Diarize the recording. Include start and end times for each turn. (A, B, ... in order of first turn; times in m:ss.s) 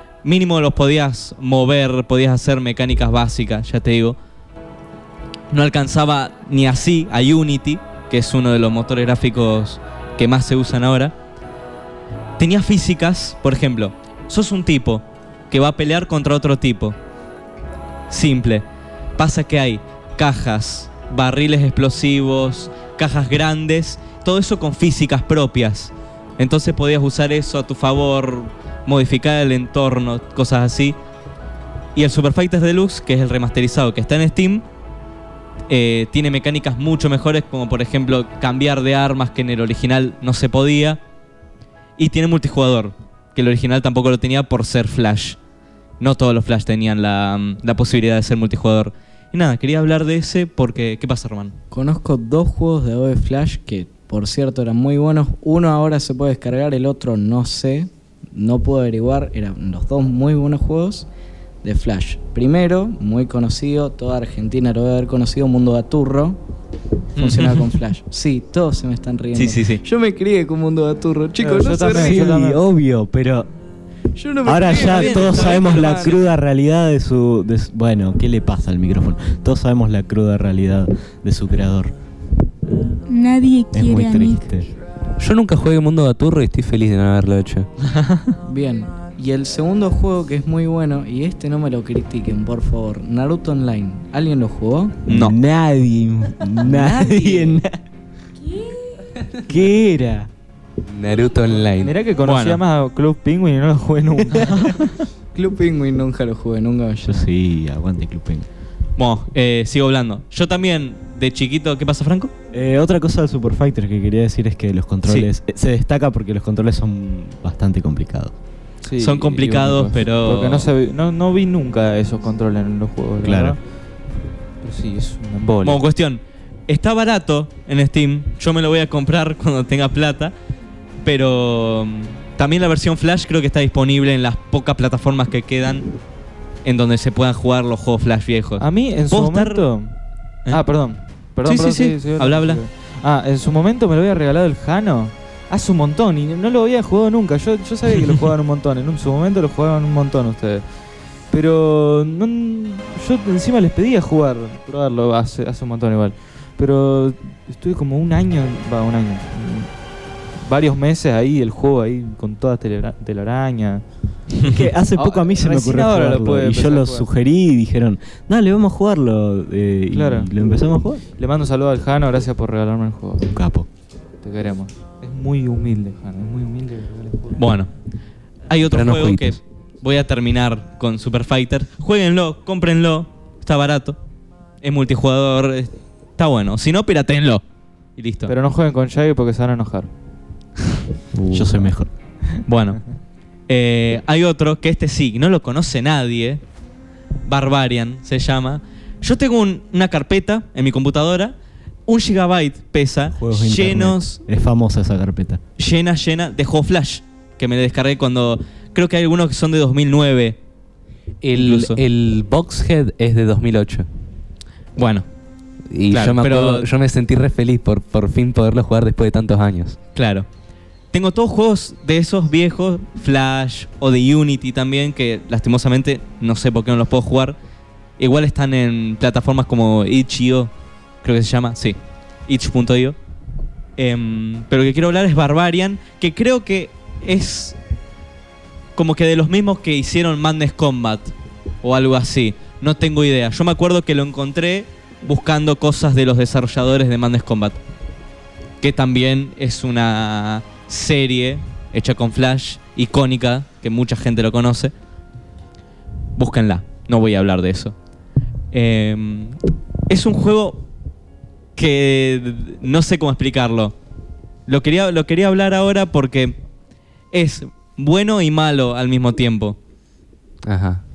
0:00.2-0:04.2 A
0:05.5-0:11.1 A
0:12.4-0:17.0 A
0:18.1-0:18.6 A
0:19.2-0:31.0 A
0:31.9-0:34.6 A
0:35.7-0:41.0 A
0:42.0-0:45.4 A
0:46.0-0:51.5 A
0:51.7-1:01.1 B
1:01.6-1:06.4 B
1:07.2-1:12.4 B
1:07.2-1:07.7 A
1:09.3-1:09.8 A
1:11.4-1:12.6 C
1:11.9-1:13.5 D
1:14.1-1:16.2 B
1:14.4-1:21.9 D
1:14.6-1:16.2 A
1:23.0-1:24.5 E
1:23.7-1:24.7 D
1:25.2-1:27.7 F
1:28.4-1:35.0 B
1:35.1-1:37.7 D
1:35.1-1:35.3 A
1:36.6-1:37.6 B
1:38.4-1:38.9 E
1:39.4-1:40.3 D
1:40.9-1:41.9 F
1:41.8-1:45.0 C
1:42.2-1:42.6 A
1:45.3-1:47.3 B
1:47.0-1:48.4 D
1:49.0-1:52.3 A
1:52.5-1:58.3 D
1:58.8-2:03.6 C
1:59.0-2:00.7 A
2:03.2-2:03.6 D
2:04.6-2:05.8 C
2:05.6-2:10.3 A
2:11.0-2:15.9 A
2:16.6-2:19.6 A
2:18.6-2:19.9 C
2:20.5-2:30.6 C
2:21.4-2:22.6 A
2:31.3-2:39.7 C
2:40.4-2:43.8 C
2:44.4-2:51.0 D
2:44.9-2:47.1 C
2:49.9-2:50.3 C
2:51.2-2:53.4 C
2:53.3-2:53.7 D
2:54.2-2:57.4 C
2:57.4-2:57.7 A
2:58.5-3:04.0 A
2:58.7-2:59.4 F
3:04.6-3:07.4 A
3:08.0-3:08.3 A
3:08.3-3:09.9 C
3:11.1-3:11.9 D
3:11.3-3:11.6 C
3:12.4-3:12.8 A
3:13.5-3:16.4 A
3:17.3-3:21.3 A
3:21.9-3:24.2 A
3:23.2-3:25.4 D
3:25.6-3:30.4 A
3:31.2-3:33.8 F
3:31.4-3:31.8 A
3:34.8-3:35.0 A
3:35.7-3:39.8 F
3:35.9-3:36.7 A
3:39.9-3:40.2 A
3:40.9-3:47.4 A
3:48.0-3:50.5 A
3:51.0-3:53.0 A
3:53.8-3:57.6 A
3:58.8-4:07.6 A
4:08.6-4:14.7 A
4:16.2-4:17.7 A
4:18.5-4:19.4 A
4:19.9-4:20.6 A
4:21.5-4:23.7 A
4:24.5-4:26.3 A
4:27.1-4:29.6 A
4:30.5-4:30.8 F